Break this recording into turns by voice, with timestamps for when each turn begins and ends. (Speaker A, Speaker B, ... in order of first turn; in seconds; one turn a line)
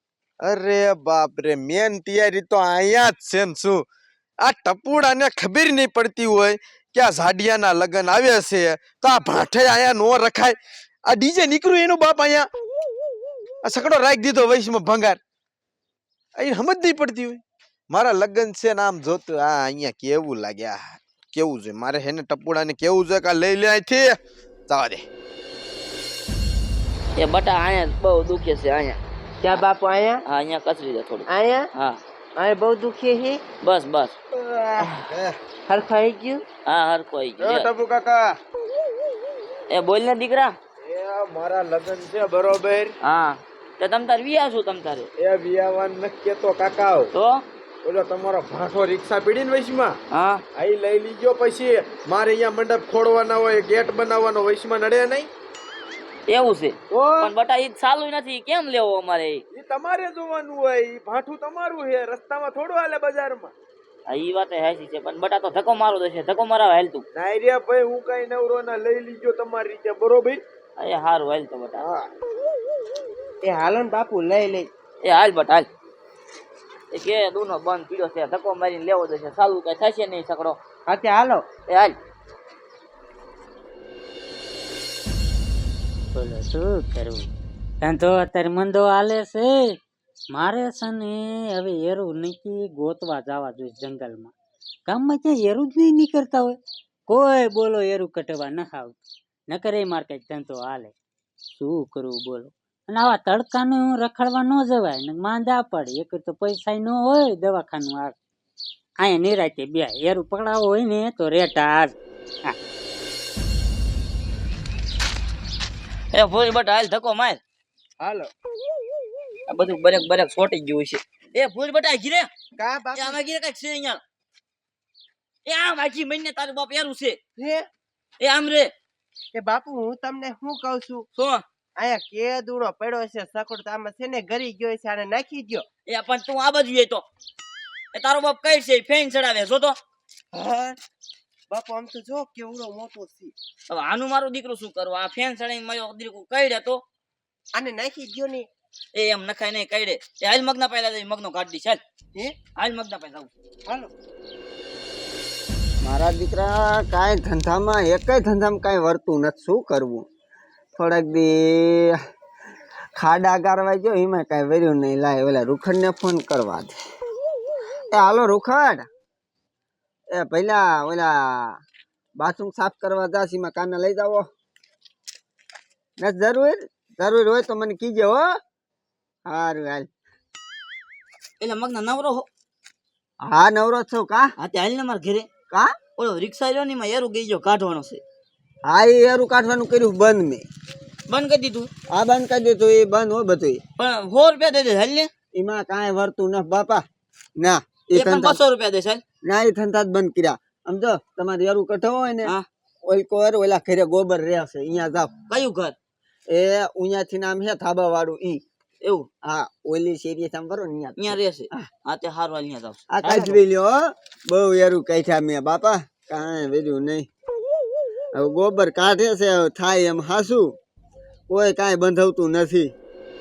Speaker A: 0.4-3.8
Speaker A: 4.4-12.5
Speaker A: 13.6-15.2
Speaker A: 16.4-24.2
Speaker A: 24.7-25.0
Speaker B: 27.2-29.0
Speaker C: 29.4-30.2
Speaker B: 30.2-32.0
Speaker C: 31.3-31.7
Speaker C: 32.4-33.4
Speaker B: 33.6-34.1
Speaker A: 34.9-35.2
Speaker C: 35.7-36.4
Speaker B: 36.6-37.7
Speaker A: 37.4-38.4
Speaker B: 39.7-40.5
Speaker A: 40.8-43.0
Speaker B: 43.0-45.1
Speaker A: 45.2-47.1
Speaker B: 47.1-47.4
Speaker A: 47.8-50.0
Speaker B: 50.1-50.4
Speaker A: 50.5-55.3
Speaker B: 56.3-59.4
Speaker A: 56.9-57.3
Speaker A: 59.5-63.5
Speaker B: 64.1-67.0
Speaker A: 67.1-70.4
Speaker B: 70.8-71.8
Speaker A: 71.8-72.1
Speaker C: 73.4-74.7
Speaker B: 75.0-75.7
Speaker B: 76.9-80.6
Speaker C: 80.9-81.4
Speaker B: 81.7-82.0
Speaker D: 86.1-87.3
Speaker D: 87.8-89.7
Speaker D: 90.3-94.3
Speaker D: 94.9-99.0
Speaker D: 99.5-100.9
Speaker D: 101.5-108.2
Speaker D: 109.0-112.5
Speaker B: 116.1-117.4
Speaker B: 119.5-122.3
Speaker C: 122.6-123.2
Speaker B: 122.9-124.0
Speaker B: 125.5-127.2
Speaker C: 127.4-127.7
Speaker B: 128.2-128.7
Speaker C: 129.3-131.1
Speaker B: 131.1-131.4
Speaker C: 131.8-135.6
Speaker B: 135.9-137.0
Speaker B: 137.9-139.7
Speaker C: 140.3-140.8
Speaker C: 141.5-143.3
Speaker B: 143.7-146.8
Speaker C: 147.5-148.5
Speaker B: 148.9-151.8
Speaker B: 152.6-153.3
Speaker E: 155.8-160.1
Speaker E: 160.8-162.0
Speaker E: 162.9-166.7
Speaker E: 167.9-168.8
Speaker E: 170.1-171.6
Speaker E: 172.2-174.2
Speaker E: 176.0-178.3
Speaker E: 179.2-179.9
Speaker B: 181.4-182.3
Speaker E: 183.2-184.3
Speaker B: 184.4-185.3
Speaker B: 186.0-188.0
Speaker E: 188.7-190.4
Speaker B: 191.1-191.7
Speaker E: 191.9-193.6
Speaker B: 193.8-195.1
Speaker E: 195.3-196.8
Speaker E: 197.4-198.4
Speaker B: 197.9-199.0
Speaker E: 199.2-202.3
Speaker E: 202.8-205.1
Speaker B: 205.3-205.7
Speaker E: 206.3-208.4
Speaker B: 208.8-209.1
Speaker E: 209.2-211.6
Speaker B: 211.0-213.4
Speaker E: 212.9-217.1
Speaker E: 218.2-220.5
Speaker E: 221.3-222.7